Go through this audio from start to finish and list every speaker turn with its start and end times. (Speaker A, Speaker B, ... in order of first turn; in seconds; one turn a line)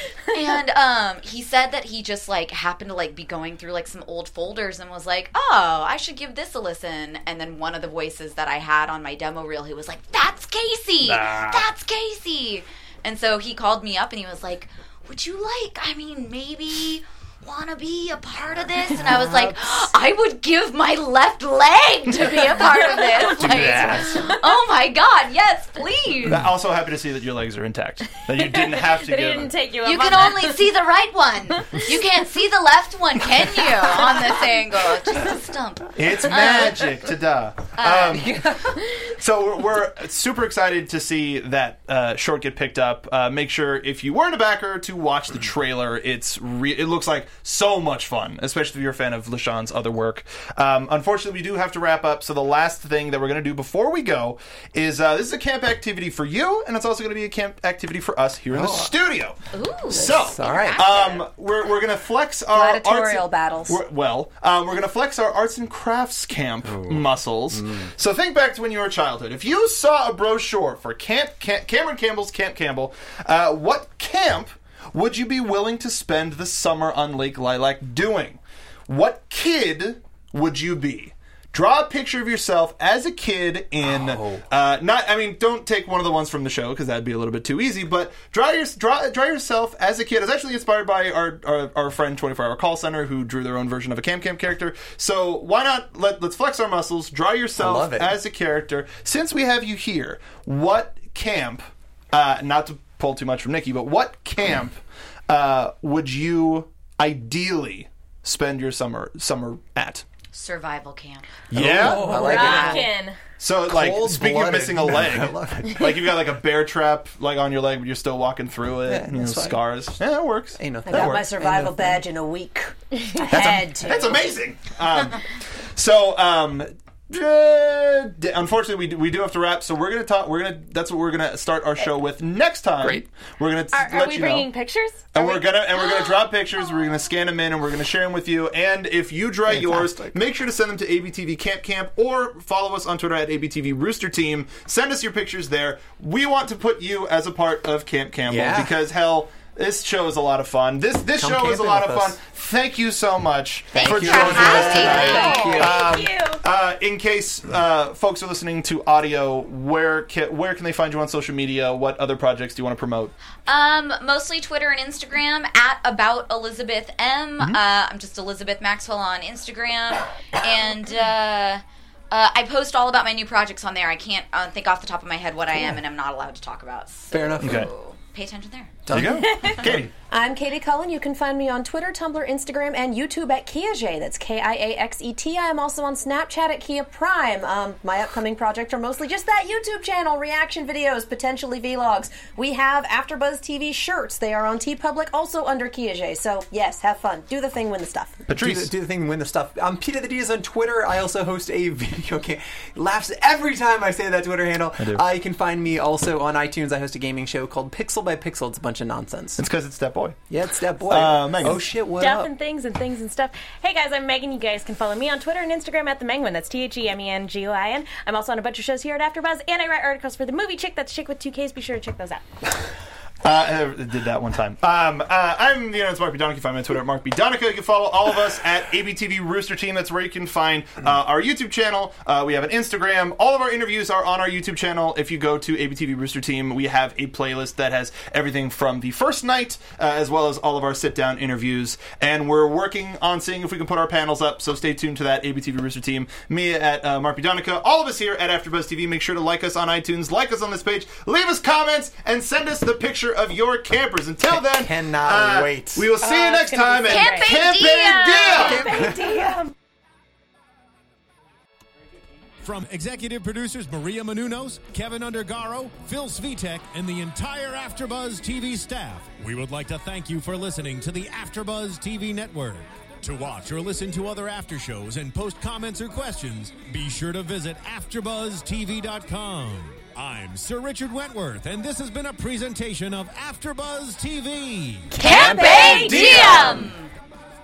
Speaker A: 0.3-26.4
Speaker B: 11.0-11.7
Speaker C: 22.9-23.5
Speaker B: 23.4-24.4
Speaker D: 23.5-24.1
Speaker B: 26.3-29.5
Speaker C: 28.3-30.6
Speaker A: 29.8-36.9
Speaker B: 36.0-38.4
Speaker A: 37.8-38.3
Speaker E: 38.1-38.8
Speaker B: 39.2-59.4
Speaker D: 58.5-58.9
Speaker A: 59.5-61.3
Speaker D: 59.9-60.8
Speaker B: 59.9-110.0
Speaker E: 62.5-63.8
Speaker D: 66.7-67.0
Speaker D: 83.8-84.5
Speaker D: 97.6-98.2
Speaker A: 110.3-111.3
Speaker B: 111.5-112.1
Speaker D: 111.5-112.9
Speaker C: 112.0-113.2
Speaker A: 112.0-112.9
Speaker B: 113.4-121.3
Speaker D: 113.7-116.0
Speaker D: 118.9-119.6
Speaker D: 120.6-122.0
Speaker E: 120.9-124.2
Speaker B: 123.3-125.2
Speaker B: 125.8-134.5
Speaker D: 132.8-133.1
Speaker C: 133.7-135.5
Speaker B: 135.1-163.1
Speaker D: 139.5-140.2
Speaker D: 148.3-148.7
Speaker D: 151.2-152.2
Speaker A: 153.7-155.6
Speaker D: 153.8-155.9
Speaker C: 154.6-156.4
Speaker E: 154.9-155.6
Speaker A: 163.5-178.8
Speaker D: 177.1-177.7
Speaker B: 177.4-177.7
Speaker D: 178.9-179.8
Speaker B: 178.9-179.9
Speaker C: 179.2-179.6
Speaker E: 180.1-198.2
Speaker B: 198.3-198.7
Speaker D: 198.3-209.4
Speaker B: 209.4-210.2
Speaker D: 210.3-212.3
Speaker B: 210.9-211.7
Speaker C: 212.0-222.2
Speaker B: 223.2-258.7
Speaker D: 254.3-255.9
Speaker C: 256.0-259.5
Speaker A: 256.9-258.6
Speaker D: 258.3-259.2
Speaker E: 258.8-259.4
Speaker F: 262.4-285.0
Speaker D: 284.9-286.7
Speaker A: 285.0-286.9
Speaker E: 285.0-286.3
Speaker C: 285.0-286.7